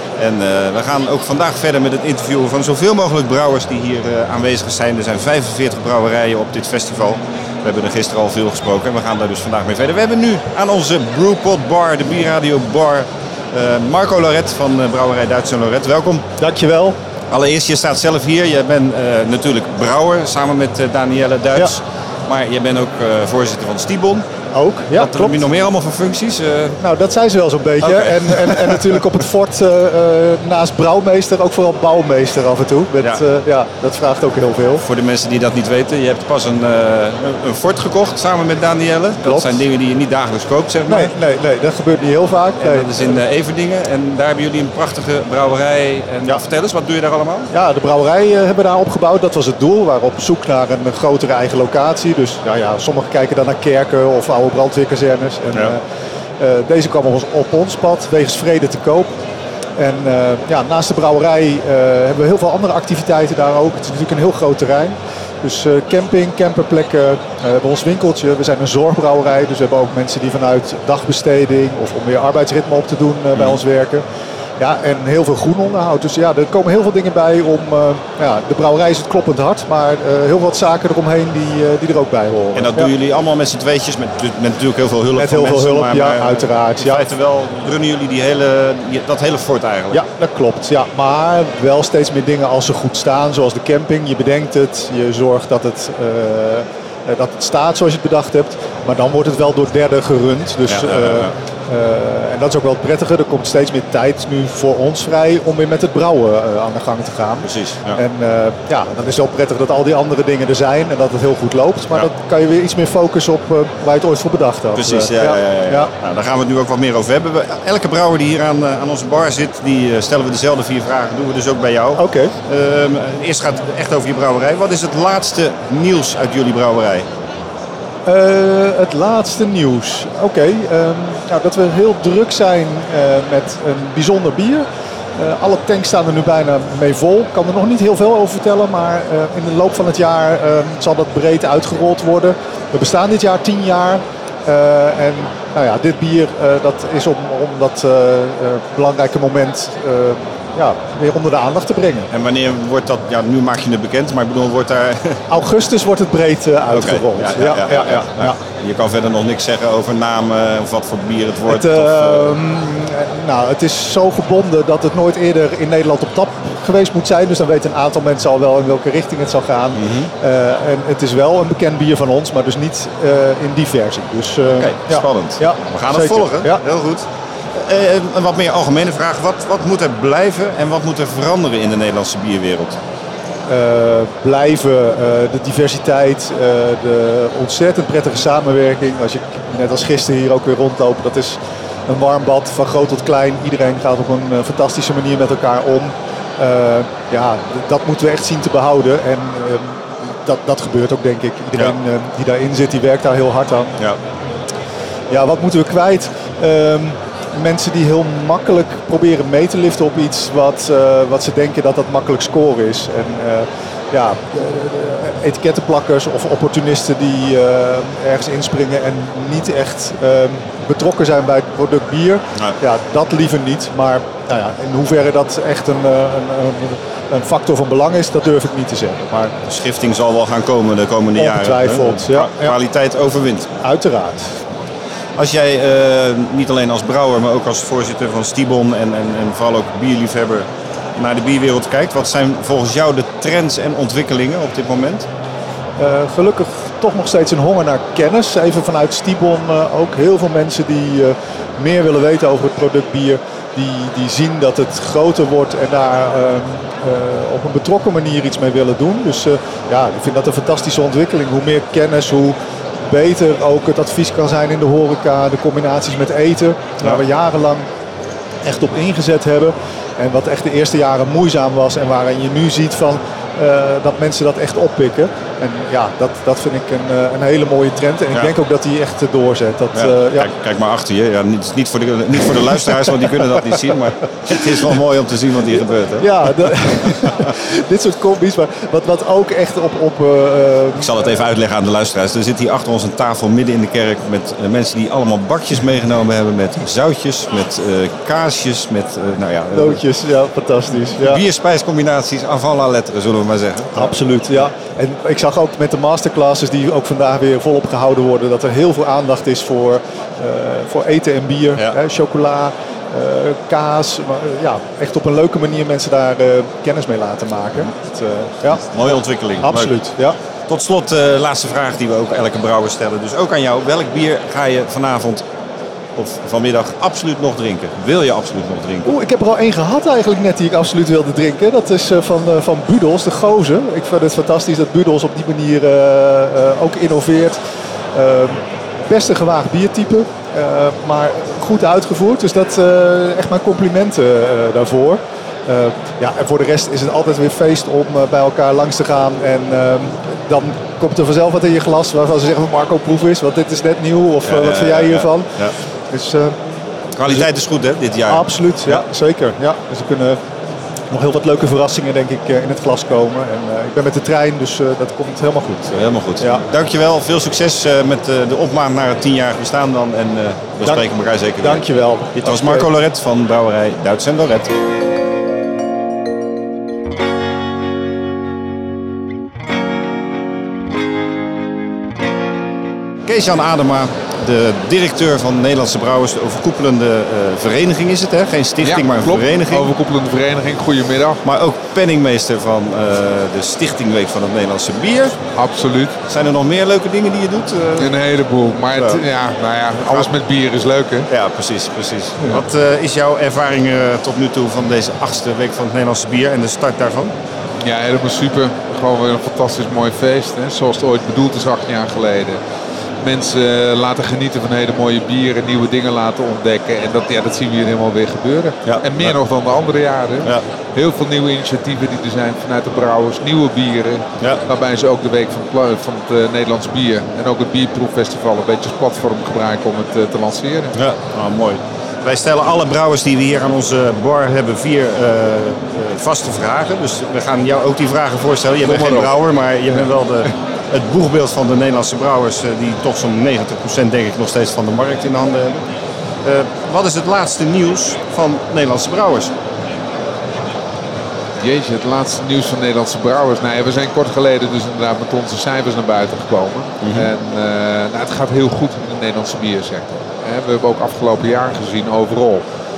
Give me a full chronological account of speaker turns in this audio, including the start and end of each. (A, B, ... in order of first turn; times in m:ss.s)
0:00.2-0:16.3 A
0:16.4-0:17.0 B
0:17.3-0:24.3 A
0:24.5-0:25.4 B
0:24.9-0:26.8 A
0:26.8-0:34.8 B
0:27.8-0:29.0 A
0:34.8-0:41.1 A
0:39.2-0:39.6 B
0:40.9-0:43.2 B
0:42.6-0:47.5 A
0:47.5-0:55.8 B
0:56.4-0:59.1 B
0:59.8-1:14.0 B
1:14.6-1:22.9 B
1:22.5-1:30.0 A
1:25.2-1:27.0 B
1:29.9-1:55.9 B
1:40.7-1:41.3 A
1:47.4-1:48.0 A
1:54.8-2:07.1 A
2:02.0-2:02.3 B
2:08.1-2:14.6 B
2:15.2-2:32.1 B
2:32.1-2:35.2 A
2:35.3-2:38.4 B
2:36.7-2:42.4 A
2:41.5-2:56.6 B
2:49.8-2:50.1 A
2:54.5-3:02.8 A
3:03.5-3:11.4 B
3:11.9-3:23.7 B
3:25.1-3:49.3 B
3:49.5-3:53.5 A
3:51.2-3:52.6 B
3:53.6-3:54.3 B
3:55.2-4:05.1 A
4:05.8-4:22.4 B
4:22.9-4:27.7 B
4:28.4-4:40.3 B
4:39.7-4:47.3 A
4:42.8-4:43.3 B
4:46.0-4:51.0 B
4:50.8-4:59.8 A
4:59.5-5:01.2 B
5:01.0-5:04.5 A
5:03.8-5:20.2 B
5:18.5-5:19.8 A
5:20.5-5:25.3 A
5:26.0-5:28.9 A
5:28.8-5:37.4 B
5:38.0-5:55.3 B
5:54.2-5:55.5 A
5:55.9-5:56.4 B
5:57.0-5:58.8 A
5:58.1-6:00.2 B
6:00.9-6:06.4 B
6:05.7-6:14.5 A
6:11.4-6:12.7 B
6:23.1-6:29.7 A
6:28.6-6:31.2 C
6:31.2-6:35.2 A
6:35.4-6:36.0 C
6:36.1-6:37.9 A
6:37.8-6:41.1 C
6:38.8-6:39.0 A
6:39.9-6:40.1 A
6:41.1-6:47.1 A
6:47.6-6:52.4 C
6:53.0-7:10.8 C
6:58.6-6:59.2 A
7:10.7-7:25.6 A
7:18.7-7:19.1 C
7:26.2-7:29.3 A
7:31.4-7:42.4 C
7:36.8-7:37.1 A